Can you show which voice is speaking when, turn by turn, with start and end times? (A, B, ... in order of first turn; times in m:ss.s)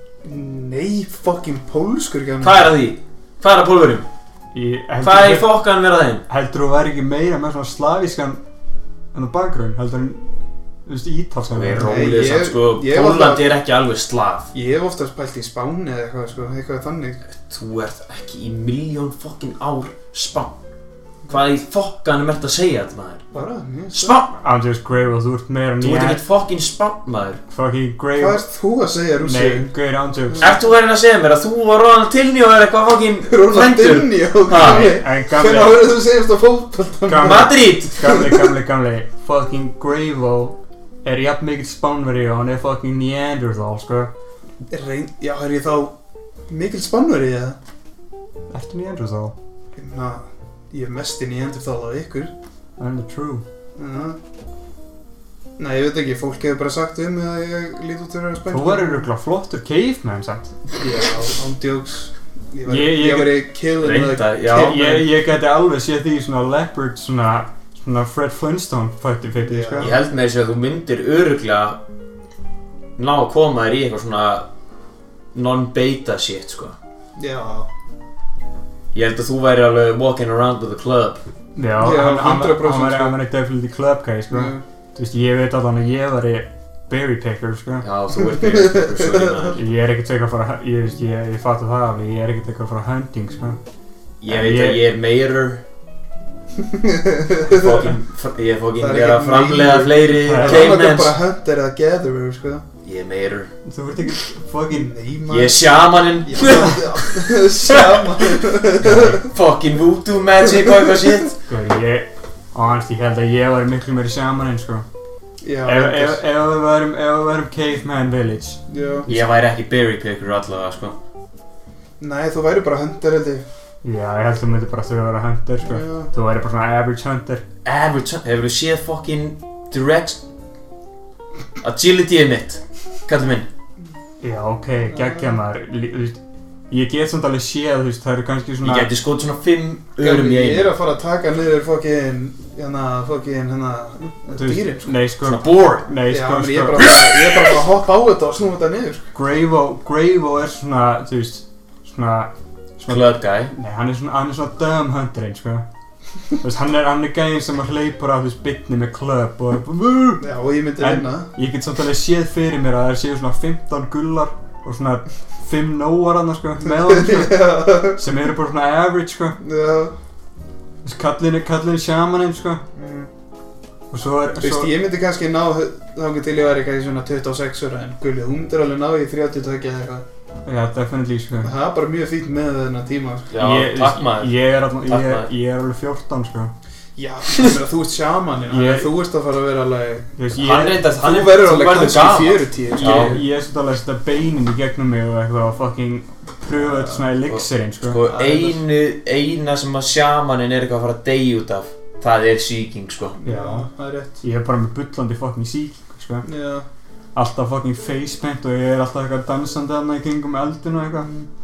0:00.2-0:02.7 A
0:02.4-0:04.1 B
0:04.5-0:05.6 C
0:05.0-0:06.2 B
0:06.3-0:08.4 C
0:09.1-0:11.9 C
0:11.5-0:14.5 B
0:11.8-0:13.4 A
0:14.5-0:17.2 A
0:17.3-0:20.6 B
0:21.3-0:23.3 B
0:23.3-0:24.2 A
0:23.9-0:24.3 B
0:24.3-0:26.2 C
0:25.8-0:27.4 B
0:27.5-0:28.4 C
0:28.2-0:29.7 A
0:29.2-0:30.5 C
0:30.4-0:35.0 B
0:33.3-0:38.4 A
0:34.6-0:35.8 C
0:37.1-0:44.1 C
0:37.2-0:38.0 B
0:44.7-0:45.9 A
0:46.5-0:47.6 A
0:48.5-0:49.4 C
0:49.8-0:52.3 A
0:52.8-0:53.4 C
0:53.8-0:54.2 A
0:55.6-0:59.1 A
0:58.5-1:00.5 C
1:00.8-1:05.0 A
1:02.7-1:03.5 C
1:03.8-1:05.0 B
1:04.6-1:09.9 C
1:09.4-1:10.0 A
1:09.8-1:11.8 B
1:13.0-1:14.5 B
1:15.3-1:16.8 B
1:17.2-1:17.7 A
1:18.9-1:21.2 B
1:21.6-1:27.9 C
1:21.8-1:23.2 A
1:24.3-1:24.6 A
1:27.8-1:29.6 B
1:28.3-1:29.5 A
1:29.6-1:33.6 C
1:34.2-1:35.6 B
1:34.3-1:34.8 C
1:36.7-1:37.9 A
1:37.4-1:41.2 B
1:38.8-1:42.6 A
1:40.2-1:40.7 C
1:42.8-1:43.5 B
1:43.7-1:44.9 C
1:44.7-1:49.3 A
1:45.3-1:48.2 B
1:46.4-1:46.8 C
1:49.1-1:51.4 B
1:51.5-1:54.9 C
1:55.4-1:56.2 A
1:55.6-1:58.6 C
1:58.7-1:59.1 A
1:59.1-2:01.0 B
2:02.0-2:03.4 A
2:03.8-2:07.4 C
2:05.6-2:06.1 A
2:07.6-2:10.2 B
2:11.6-2:13.5 B
2:14.2-2:16.2 C
2:14.9-2:15.3 A
2:16.7-2:18.9 C
2:18.6-2:20.8 B
2:20.0-2:24.9 A
2:24.3-2:26.9 C
2:25.2-2:25.9 B
2:26.1-2:29.1 A
2:29.1-2:35.7 C
2:32.9-2:33.5 B
2:36.4-2:40.3 C
2:40.2-2:41.3 A
2:40.8-2:49.4 C
2:46.7-2:48.0 A
2:49.4-2:50.0 A
2:50.8-2:52.6 C
2:52.8-2:53.1 A
2:53.9-2:54.7 C
2:54.4-3:00.0 A
3:00.5-3:01.5 C
3:01.4-3:03.3 A
3:03.3-3:05.3 B
3:03.4-3:06.5 C
3:07.0-3:10.2 A
3:08.5-3:08.9 C
3:10.2-3:10.8 C
3:10.4-3:13.2 B
3:10.7-3:13.2 A
3:12.7-3:18.0 C
3:17.3-3:23.2 B
3:18.0-3:18.6 A
3:23.2-3:24.2 A
3:23.2-3:23.7 C
3:24.2-3:26.3 C
3:26.2-3:26.7 A
3:27.2-3:31.1 C
3:31.0-3:31.3 A